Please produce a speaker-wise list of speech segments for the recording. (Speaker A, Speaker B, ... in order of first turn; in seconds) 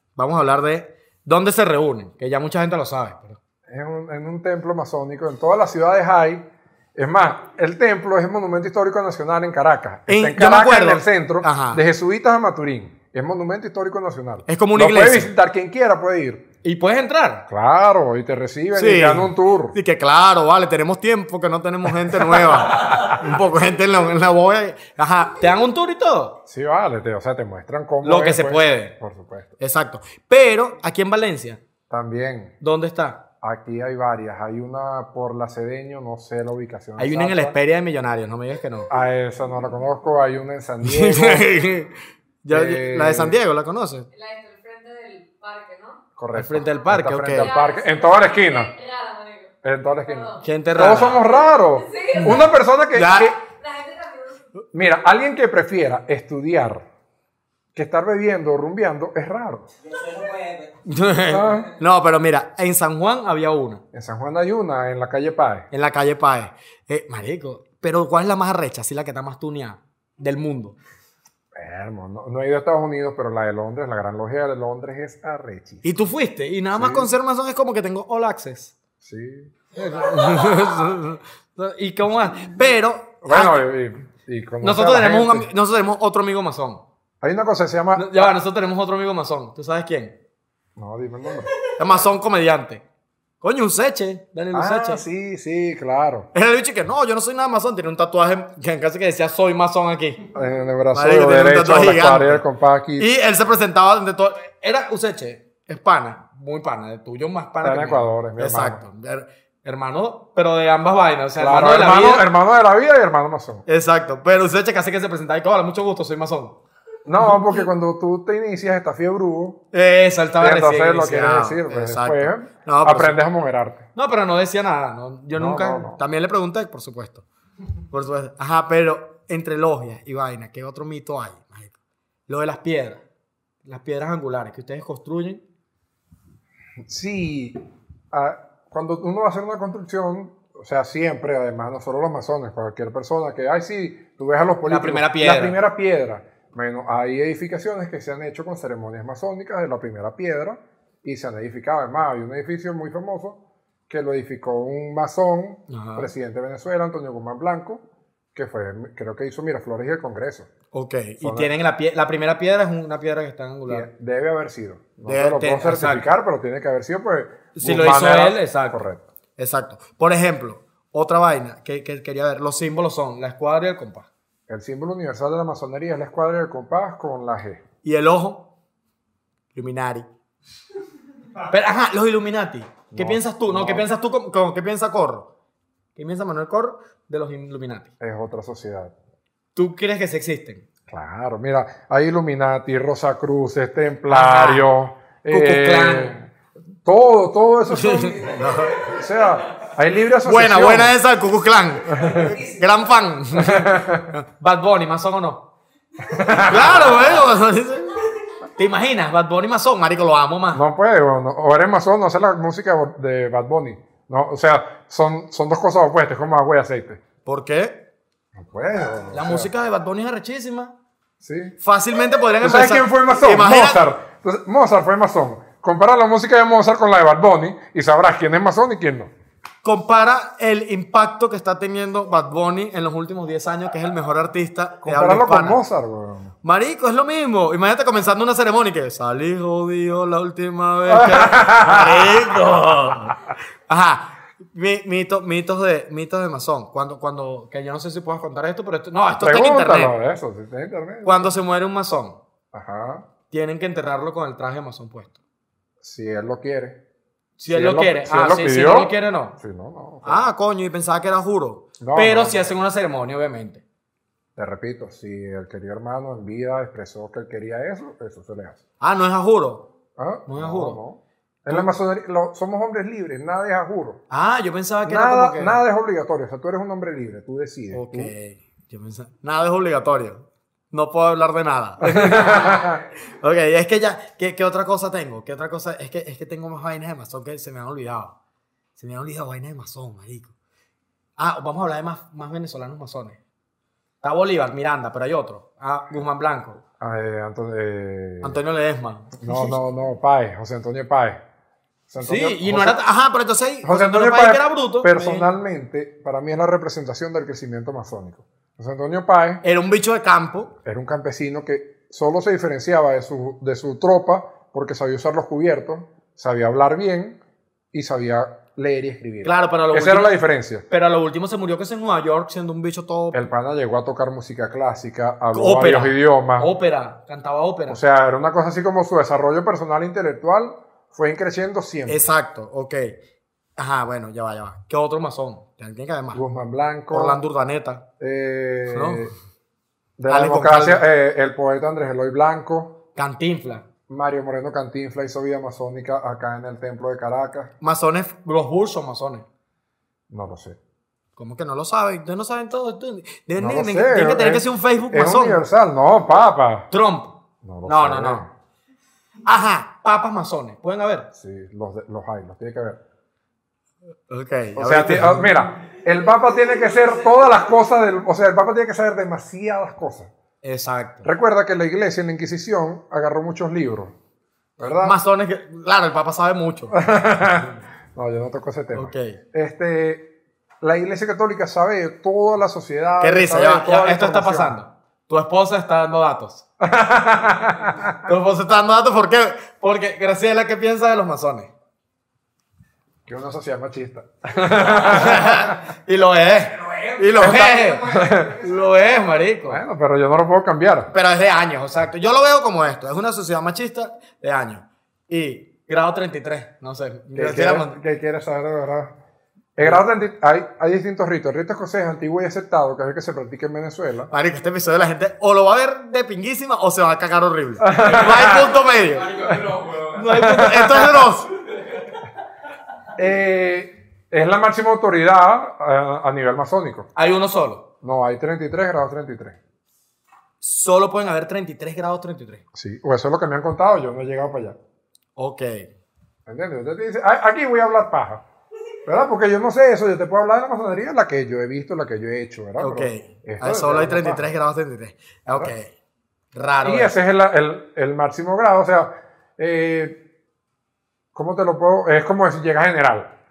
Speaker A: 0.2-3.4, 10.1-11.8, 14.5-15.3, 16.6-17.5, 18.7-26.4, 28.0-28.9, 29.6-31.6, 32.6-33.3, 37.0-38.9, 40.8-44.1, 46.3-47.5, 50.4-51.2, 52.9-53.3, 60.8-63.8, 65.7-70.8, 75.8-78.8, 79.7-83.7, 84.6-86.8, 88.0-90.2, 91.7-92.8, 93.4-95.0, 96.3-100.2, 100.9-102.5, 103.0-112.3, 113.7-116.6, 119.7-123.2, 124.0-127.3, 127.9-131.8, 132.3-133.0, 133.7-135.4, 144.7-145.6, 155.7-156.1, 160.7-163.9, 165.1-166.1, 167.6-168.8, 169.4-174.1, 177.8-178.5, 179.5-180.1, 181.5-185.3, 185.9-187.9, 189.6-190.6, 194.1-194.7, 195.3-196.2, 197.7-198.9, 200.2-205.5, 206.3-208.0, 208.6-210.6, 217.2-217.8, 219.1-220.7, 221.6-223.8, 229.6-235.6, 236.4-250.0, 251.0-252.2, 253.3-255.2, 257.4-259.4, 260.0-263.6, 268.8-269.7, 270.3-270.8, 274.1-275.6, 277.7-288.2, 288.8-290.3, 291.2-293.2, 294.0-296.6, 298.2-299.5, 302.0-305.3, 309.4-310.6, 319.2-323.2, 325.3-327.8, 331.9-333.0, 333.6-336.2, 336.9-337.9, 338.7-339.1, 340.1-340.9, 342.9-343.7, 347.6-349.3, 351.2-355.4, 356.7-358.3, 359.2-361.1, 364.1-365.3, 370.4-371.1, 374.8-376.8, 378.8-379.2, 383.0-386.5, 388.1-391.5, 394.7-399.6, 400.9-407.8, 414.1-421.3, 427.0-427.6, 430.4-432.4, 435.2-435.7, 442.6-445.7, 446.3-446.9
Speaker B: 3.7-16.5, 17.5-19.8, 22.1-23.1, 26.5-29.6, 31.9-32.5, 33.4-37.6, 38.9-41.5, 42.5-43.4, 46.2-48.7, 49.6-53.4, 54.7-56.9, 57.8-59.7, 61.3-61.7, 63.9-65.7, 71.5-75.8, 76.7-77.1, 79.0-79.5, 83.2-85.5, 87.2-88.3, 90.8-91.5, 94.5-96.3, 100.3-103.1, 107.6-108.8, 111.4-113.7, 117.1-119.6, 120.4-123.9, 125.4-126.0, 136.8-137.6, 138.1-157.8, 158.3-160.5, 161.2-161.5, 163.7-169.0, 174.5-177.6, 182.9-183.9, 188.0-188.9, 190.9-196.3, 196.8-200.9, 201.9-202.4, 203.4-204.1, 206.1-207.2, 210.5-217.0, 218.4-219.5, 221.2-221.6, 222.4-229.1, 234.8-236.3, 240.9-242.4, 249.2-251.3, 252.5-253.1, 255.8-256.8, 257.5-260.3, 261.8-262.4, 264.4-268.6, 270.0-274.0, 274.9-278.1, 281.8-282.8, 296.8-298.4, 299.2-301.2, 301.9-302.8, 303.6-309.4, 310.6-317.2, 317.7-320.6, 323.1-326.5, 327.7-332.1, 336.1-337.2, 338.0-339.1, 340.0-342.8, 343.9-347.5, 350.1-350.6, 353.4-356.7, 357.4-358.3, 361.1-362.8, 364.6-370.1, 371.0-373.9, 374.6-375.0, 376.7-380.1, 380.6-384.6, 386.6-388.1, 393.1-395.6, 397.1-398.4, 399.5-400.9, 407.1-409.0, 409.6-414.1, 417.6-418.5, 420.1-421.1, 423.0-426.9, 427.8-429.4, 432.5-434.6, 436.3-438.2, 438.9-444.3, 446.6-450.0, 451.1-453.1
Speaker C: 44.1-46.0, 47.4-50.4, 51.7-52.5, 53.4-54.4